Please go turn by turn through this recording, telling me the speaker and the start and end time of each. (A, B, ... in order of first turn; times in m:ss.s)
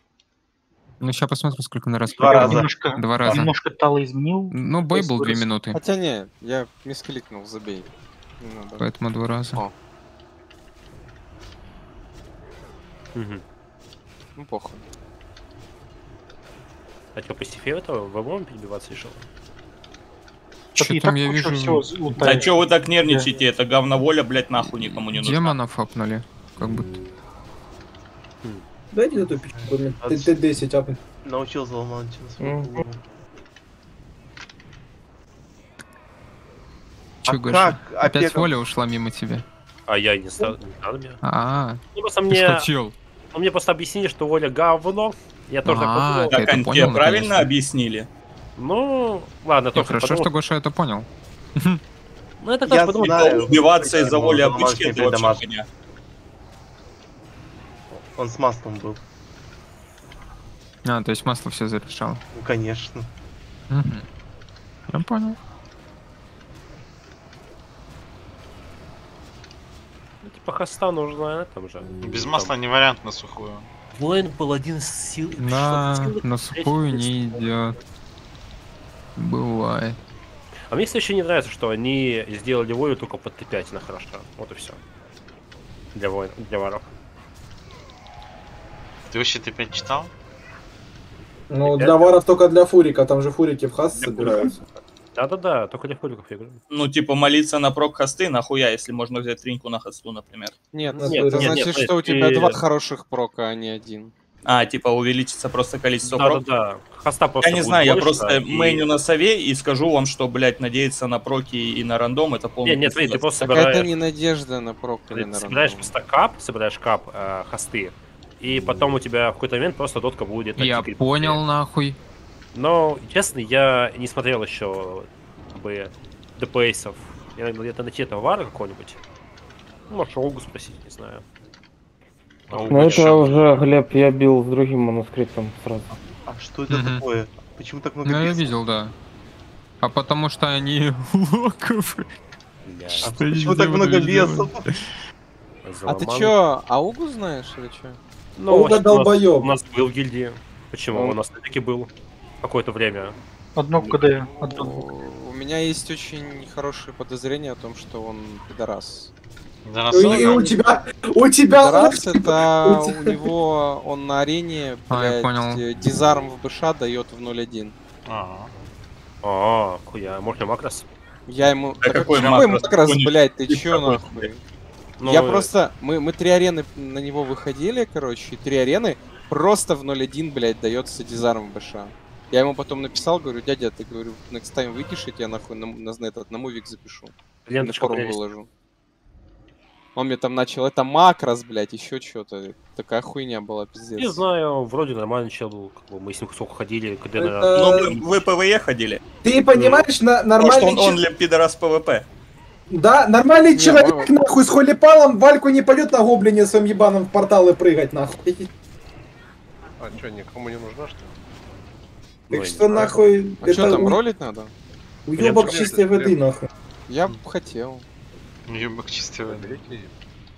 0:01.0-0:03.5 A
0:02.2-0:03.4 B
0:02.2-0:05.5 C
0:04.5-0:05.8 A
0:05.7-0:07.9 D
0:08.4-0:08.9 D
0:08.8-0:09.6 A
0:13.1-0:13.4 E
0:14.4-0:14.9 D
0:17.1-0:19.2 E
0:20.8-0:23.3 C
0:20.8-0:22.1 A
0:22.2-0:25.6 F
0:25.1-0:26.9 A
0:28.9-0:31.0 G
0:29.2-0:30.3 B
0:31.2-0:33.0 B
0:32.4-0:32.8 H
0:37.2-0:39.4 A
0:37.3-0:38.5 B
0:39.9-0:41.2 E
0:41.2-0:42.9 A
0:41.9-0:42.7 E
0:43.3-0:46.5 E
0:45.6-0:47.5 A
0:46.3-0:48.1 F
0:48.6-0:50.3 E
0:49.7-0:51.8 A
0:52.4-0:54.2 E
0:52.6-0:55.4 B
0:53.0-0:55.7 F
0:58.2-0:59.0 B
1:00.8-1:02.2 A
1:02.3-1:03.1 B
1:03.7-1:04.0 A
1:04.9-1:05.4 A
1:10.2-1:12.5 E
1:12.0-1:13.7 I
1:13.9-1:17.4 E
1:15.4-1:17.8 A
1:19.2-1:20.0 A
1:20.7-1:24.8 E
1:25.9-1:26.9 E
1:29.1-1:30.1 I
1:31.5-1:34.5 G
1:31.6-1:32.1 E
1:34.0-1:36.6 E
1:36.7-1:40.5 F
1:40.7-1:44.1 D
1:41.0-1:41.6 G
1:41.0-1:42.6 E
1:44.4-1:46.4 F
1:46.0-1:48.8 E
1:47.4-1:53.3 F
1:52.6-1:53.9 E
1:53.4-1:55.9 D
1:55.1-2:01.4 E
2:00.6-2:02.0 A
2:02.5-2:09.0 E
2:09.9-2:11.2 E
2:12.5-2:13.6 I
2:12.5-2:13.4 E
2:12.7-2:15.9 H
2:16.2-2:18.5 B
2:16.7-2:17.0 A
2:18.0-2:18.9 A
2:19.8-2:22.1 A
2:22.6-2:23.1 E
2:23.0-2:24.7 B
2:23.0-2:24.8 A
2:25.6-2:26.3 E
2:25.9-2:28.0 D
2:28.4-2:33.2 E
2:28.5-2:29.5 G
2:30.9-2:31.2 H
2:33.6-2:34.7 C
2:34.4-2:39.1 D
2:39.6-2:40.5 I
2:39.9-2:43.2 G
2:41.5-2:47.8 D
2:44.9-2:45.6 A
2:48.0-2:48.5 I
2:49.2-2:50.9 E
2:51.3-2:54.4 D
2:51.8-2:54.3 F
2:55.0-2:55.5 E
2:55.0-3:08.5 D
3:07.5-3:08.2 E
3:09.9-3:14.2 D
3:14.0-3:17.6 E
3:17.2-3:18.0 G
3:17.5-3:19.0 F
3:19.2-3:21.0 G
3:19.5-3:19.8 F
3:20.4-3:22.1 F
3:22.7-3:28.5 G
3:23.5-3:24.2 D
3:29.8-3:31.2 J
3:32.3-3:34.0 G
3:32.3-3:33.0 E
3:33.4-3:34.5 D
3:35.1-3:36.4 G
3:35.2-3:35.7 E
3:35.3-3:36.2 J
3:36.9-3:37.8 D
3:38.5-3:39.6 I
3:39.2-3:39.9 J